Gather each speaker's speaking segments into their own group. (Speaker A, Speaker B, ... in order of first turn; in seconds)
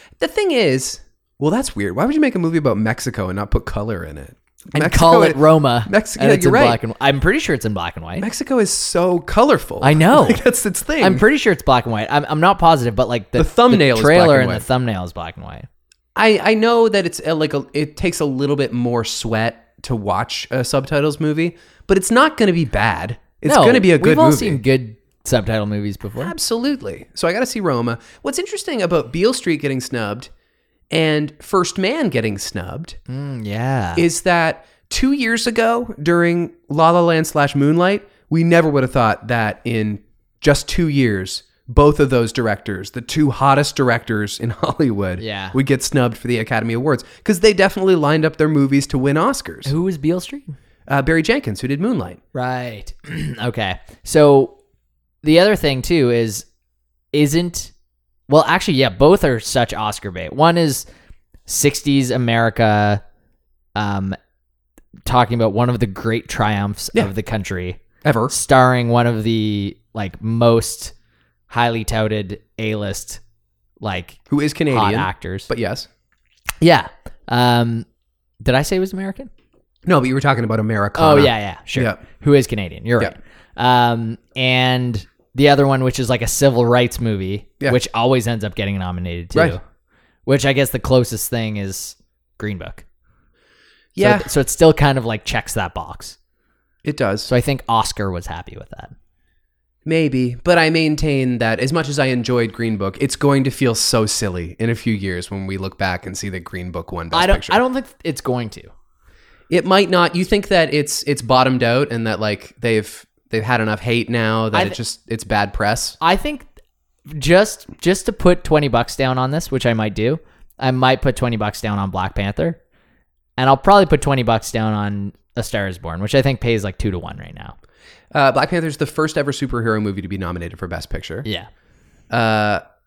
Speaker A: 0.2-6.8, 8.2-11.2, 13.4-14.7, 16.2-24.6, 26.2-30.3, 30.9-33.0, 34.0-49.7, 50.9-52.2, 68.0-68.3, 74.3-75.9, 79.9-82.0, 94.0-94.3, 96.8-97.3, 99.8-107.6, 109.5-116.0, 128.1-131.3, 132.1-132.6
Speaker B: 4.7-8.3, 9.8-10.4, 11.0-15.7, 23.4-26.3, 33.1-34.0, 45.2-45.6, 49.6-50.5, 52.3-54.6, 55.2-56.5, 57.1-57.7, 58.3-60.9, 61.5-63.0, 63.8-64.2, 65.1-70.9, 71.5-73.2, 73.8-75.5, 76.6-77.9, 78.4-79.3, 81.0-89.6, 90.3-92.8, 94.0-96.2, 97.3-98.9, 107.1-108.7, 116.0-116.5, 117.1-122.6, 123.4-127.6